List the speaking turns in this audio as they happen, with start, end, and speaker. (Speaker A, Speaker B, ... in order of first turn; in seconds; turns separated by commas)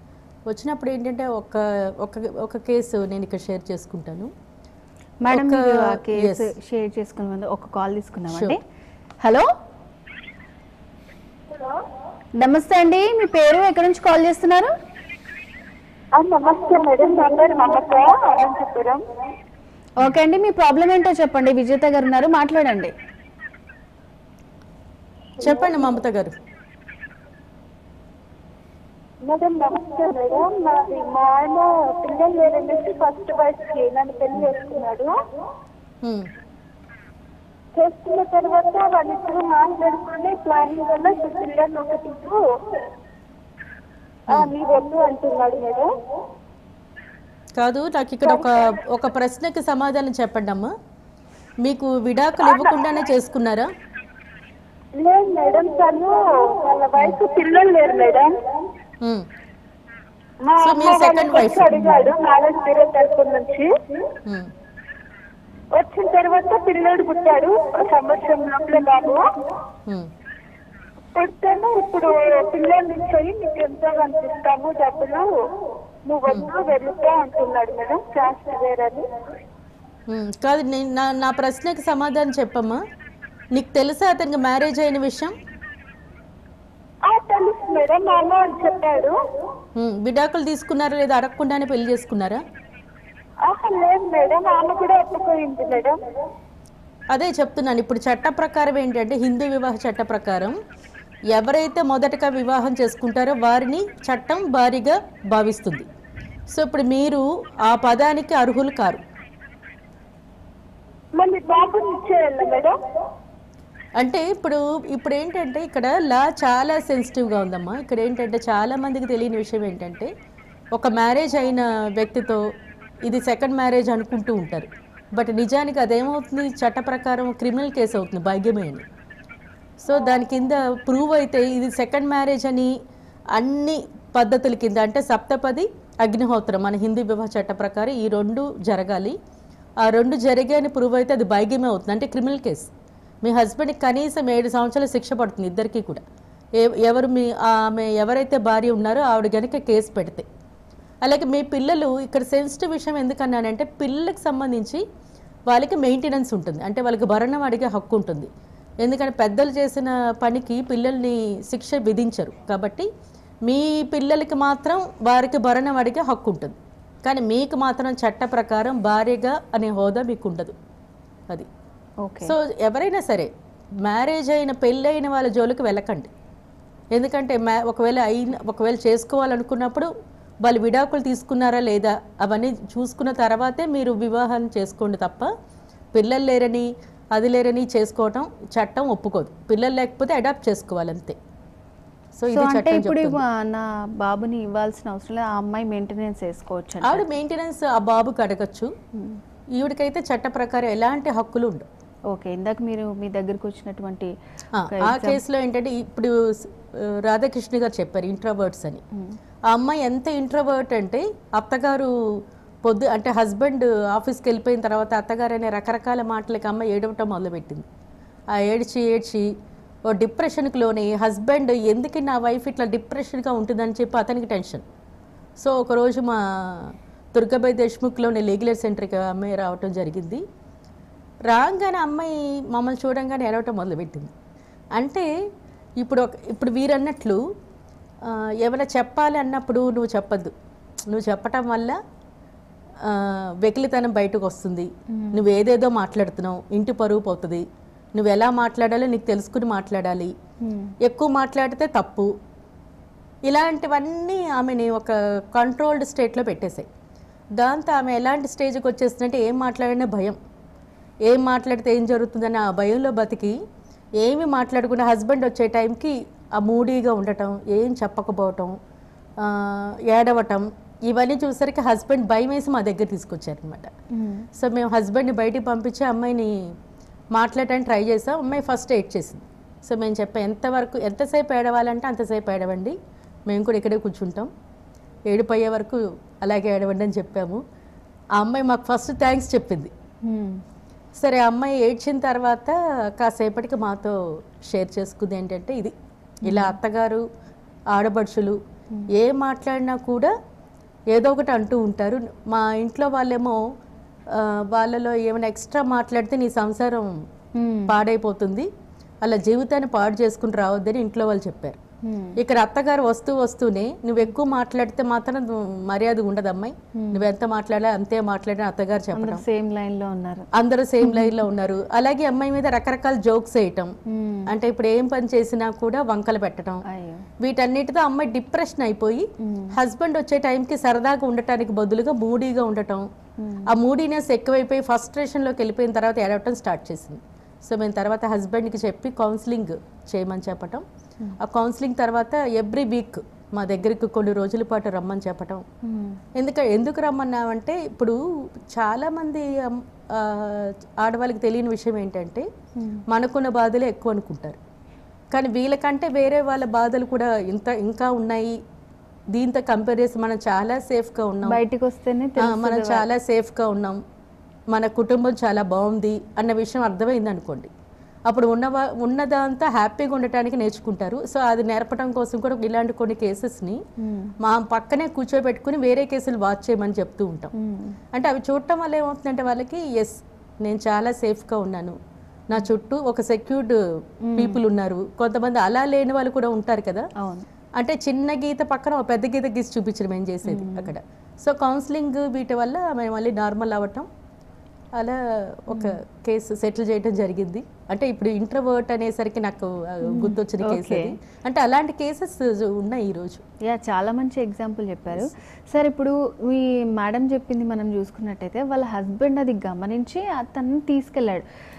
Speaker A: 0.5-4.3, Speaker B: 5.2-8.6, Speaker A: 5.3-6.5, Speaker A: 8.3-8.6, Speaker B: 9.2-9.5, Speaker B: 12.4-14.7, Speaker C: 16.1-19.0, Speaker B: 20.0-22.9, Speaker A: 25.4-26.3, Speaker C: 29.2-35.1, Speaker A: 36.0-36.3, Speaker C: 37.8-42.4, Speaker C: 44.3-45.9, Speaker A: 47.6-50.7, Speaker C: 48.2-48.7, Speaker A: 51.6-53.7, Speaker C: 52.4-52.8, Speaker C: 55.0-58.4, Speaker A: 59.0-59.3, Speaker C: 60.4-63.7, Speaker A: 60.6-62.1, Speaker A: 64.2-64.5, Speaker C: 65.7-69.2, Speaker C: 71.1-75.3, Speaker C: 76.1-79.1, Speaker A: 80.1-82.8, Speaker A: 83.5-85.4, Speaker C: 87.0-89.2, Speaker A: 89.8-92.4, Speaker C: 93.5-96.0, Speaker A: 97.1-100.6, Speaker A: 101.3-105.9, Speaker A: 106.5-109.0, Speaker C: 111.2-112.8, Speaker A: 114.0-120.1, Speaker A: 120.7-122.4, Speaker A: 123.0-128.9, Speaker A: 129.8-132.7, Speaker A: 133.3-139.2, Speaker A: 139.8-142.7, Speaker A: 143.2-146.0, Speaker A: 146.6-150.3, Speaker A: 151.0-154.8, Speaker A: 155.5-158.3, Speaker A: 158.8-162.9, Speaker A: 163.4-170.6, Speaker B: 172.0-172.3, Speaker A: 172.2-176.1, Speaker A: 176.9-179.9, Speaker A: 180.4-185.3, Speaker A: 185.9-191.2, Speaker A: 192.2-193.2, Speaker B: 192.3-197.1, Speaker A: 196.8-198.7, Speaker A: 199.6-201.7, Speaker B: 202.1-204.1, Speaker A: 204.6-208.8, Speaker B: 204.7-205.2, Speaker A: 209.5-217.7, Speaker A: 218.3-219.3, Speaker A: 219.9-224.6, Speaker A: 225.4-230.2, Speaker A: 231.3-234.1, Speaker A: 234.8-235.1, Speaker A: 235.8-237.2, Speaker A: 238.0-240.3, Speaker A: 240.9-241.8, Speaker A: 242.8-250.1, Speaker B: 244.9-245.2, Speaker B: 250.4-250.7, Speaker A: 250.8-252.1, Speaker A: 253.2-256.7, Speaker A: 257.4-260.2, Speaker A: 261.1-263.4, Speaker A: 264.0-268.6, Speaker A: 269.2-273.7, Speaker B: 273.9-274.3, Speaker A: 274.4-276.5, Speaker A: 277.1-282.8, Speaker A: 283.3-284.3, Speaker A: 285.1-287.4, Speaker A: 288.2-289.7, Speaker B: 290.0-290.4, Speaker A: 291.0-297.1, Speaker B: 296.3-296.6, Speaker A: 297.7-298.4, Speaker A: 298.9-300.1, Speaker A: 300.9-303.4, Speaker A: 304.1-306.9, Speaker B: 307.4-307.7, Speaker A: 307.7-308.5, Speaker A: 309.0-311.6, Speaker B: 311.8-312.2, Speaker A: 312.2-319.2, Speaker B: 316.8-317.1, Speaker B: 318.9-320.3, Speaker A: 320.3-323.8, Speaker B: 320.8-321.2, Speaker B: 323.9-324.3, Speaker A: 324.3-326.6, Speaker B: 326.7-327.1, Speaker A: 327.2-332.9, Speaker B: 329.2-329.6, Speaker B: 333.2-333.5, Speaker A: 333.5-340.6, Speaker A: 341.2-345.4, Speaker B: 345.6-346.0, Speaker A: 346.1-348.0, Speaker A: 348.5-352.3, Speaker B: 352.6-352.8, Speaker A: 352.9-354.4, Speaker A: 355.1-358.4, Speaker A: 359.1-361.4, Speaker B: 361.2-362.9, Speaker A: 362.2-363.8, Speaker A: 364.5-367.5, Speaker A: 368.1-373.6, Speaker B: 373.8-374.1, Speaker A: 374.2-377.3, Speaker B: 377.4-377.8, Speaker A: 377.9-381.8, Speaker A: 382.3-383.6, Speaker B: 384.1-384.4, Speaker A: 384.1-386.9, Speaker B: 387.0-387.3, Speaker A: 387.6-393.9, Speaker B: 390.2-390.7, Speaker A: 394.8-403.2, Speaker B: 395.5-395.8, Speaker B: 399.9-401.0, Speaker B: 403.4-411.2